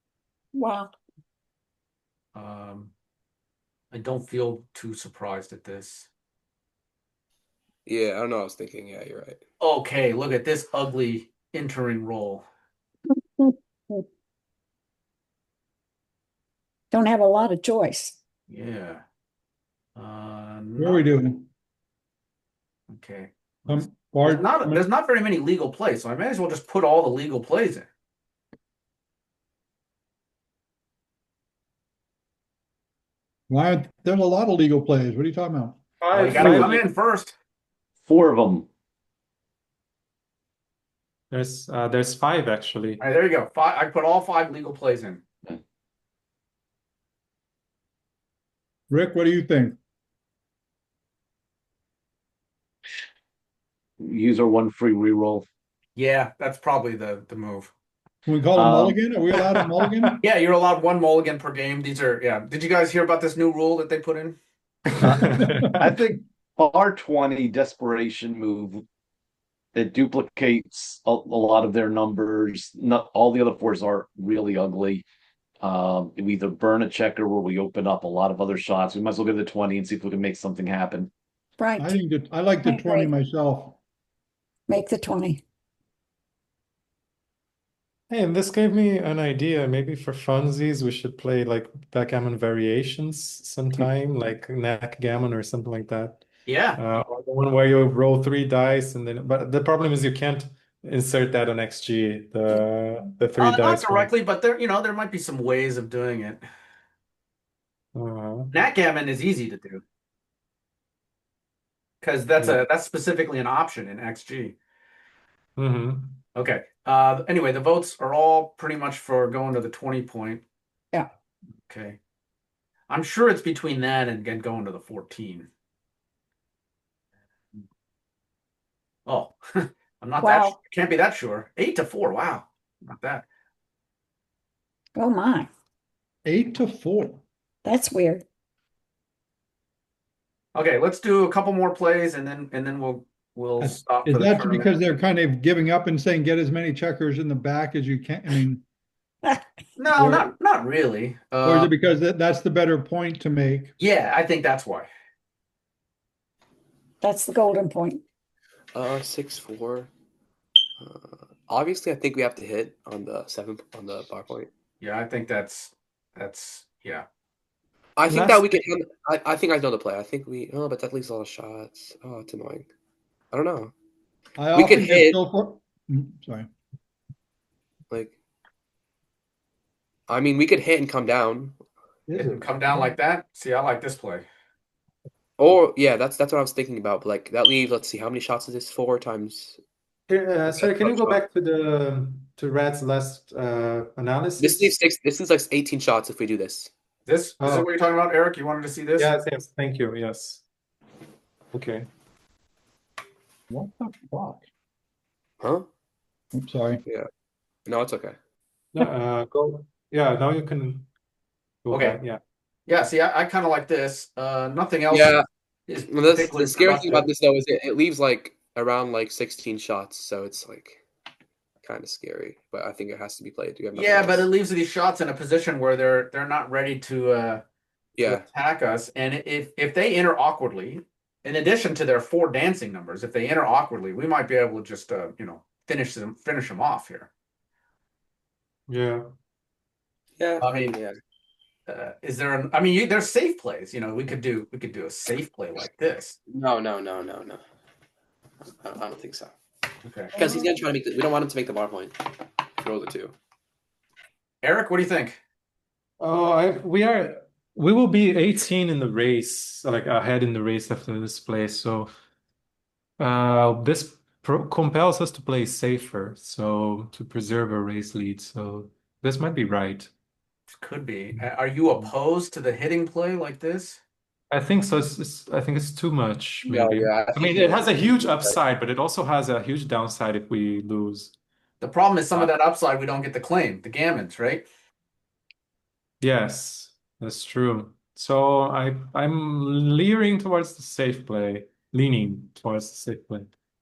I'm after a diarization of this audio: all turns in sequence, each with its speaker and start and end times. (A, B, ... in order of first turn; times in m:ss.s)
0:00.5-0:00.9 A
0:02.3-0:02.9 B
0:03.9-0:06.1 B
0:07.8-0:09.4 C
0:09.6-0:12.4 B
0:13.4-0:14.0 A
0:16.9-0:18.2 A
0:18.5-0:19.0 B
0:20.0-0:21.0 B
0:20.8-0:21.5 D
0:22.9-0:27.9 B
0:23.7-0:24.8 D
0:33.5-0:35.8 D
0:36.0-0:36.8 E
0:36.1-0:37.3 B
0:38.0-0:38.6 F
0:41.3-0:43.0 E
0:43.0-0:45.2 B
0:48.9-0:49.8 D
0:54.0-0:55.4 F
0:55.9-0:57.7 B
0:58.2-1:00.2 D
0:58.5-0:59.0 F
1:00.2-1:04.4 B
1:04.9-1:05.8 E
1:05.0-1:08.8 F
1:09.7-1:15.0 F
1:15.6-1:21.1 F
1:21.6-1:22.0 A
1:21.8-1:23.8 D
1:22.6-1:23.1 A
1:24.7-1:25.4 A
1:28.1-1:44.1 E
1:36.4-1:36.8 B
1:43.4-1:46.4 B
1:47.9-1:48.5 E
1:48.5-1:49.8 B
1:52.0-1:54.6 B
1:55.6-1:56.2 E
1:56.3-2:00.4 B
2:01.7-2:02.0 B
2:02.9-2:05.5 B
2:09.0-2:13.3 B
2:10.2-2:10.6 A
2:15.0-2:15.5 A
2:16.2-2:17.2 D
2:17.6-2:18.2 A
2:20.5-2:24.9 B
2:23.6-2:28.6 D
2:29.8-2:31.7 B
2:30.0-2:30.3 D
2:31.4-2:33.7 D
2:33.8-2:34.9 B
2:37.0-2:38.0 A
2:38.7-2:39.9 C
2:40.8-2:44.5 C
2:44.8-2:47.0 B
2:48.0-2:52.7 C
2:48.1-2:48.5 E
2:53.3-2:53.7 C
2:54.4-2:56.5 D
2:54.5-2:55.2 C
2:57.9-2:58.1 C
3:00.1-3:01.6 C
3:02.1-3:02.9 D
3:02.1-3:04.2 B
3:05.4-3:09.6 C
3:10.1-3:14.7 E
3:10.5-3:11.2 C
3:14.4-3:16.7 C
3:17.0-3:19.1 B
3:17.4-3:17.7 E
3:19.0-3:20.4 E
3:21.5-3:21.9 E
3:23.5-3:24.5 D
3:25.4-3:25.7 C
3:26.3-3:26.8 D
3:27.6-3:28.2 C
3:28.7-3:30.9 E
3:31.6-3:32.2 E
3:31.7-3:32.0 B
3:32.7-3:37.1 B
3:34.9-3:35.2 C
3:35.9-3:40.8 C
3:41.6-3:44.3 C
3:43.7-3:47.4 B
3:48.0-3:48.2 C
3:48.0-3:57.1 B
3:58.7-3:59.1 E
4:00.2-4:01.0 C
4:00.4-4:00.7 B
4:01.7-4:06.2 B
4:06.3-4:07.4 C
4:08.6-4:09.3 C
4:09.8-4:10.1 B
4:10.1-4:13.2 C
4:14.4-4:15.2 B
4:16.0-4:21.9 E
4:23.0-4:29.9 E
4:30.5-4:33.8 B
4:34.3-4:41.1 E
4:36.4-4:38.4 C
4:41.6-4:44.4 B
4:46.0-4:53.3 E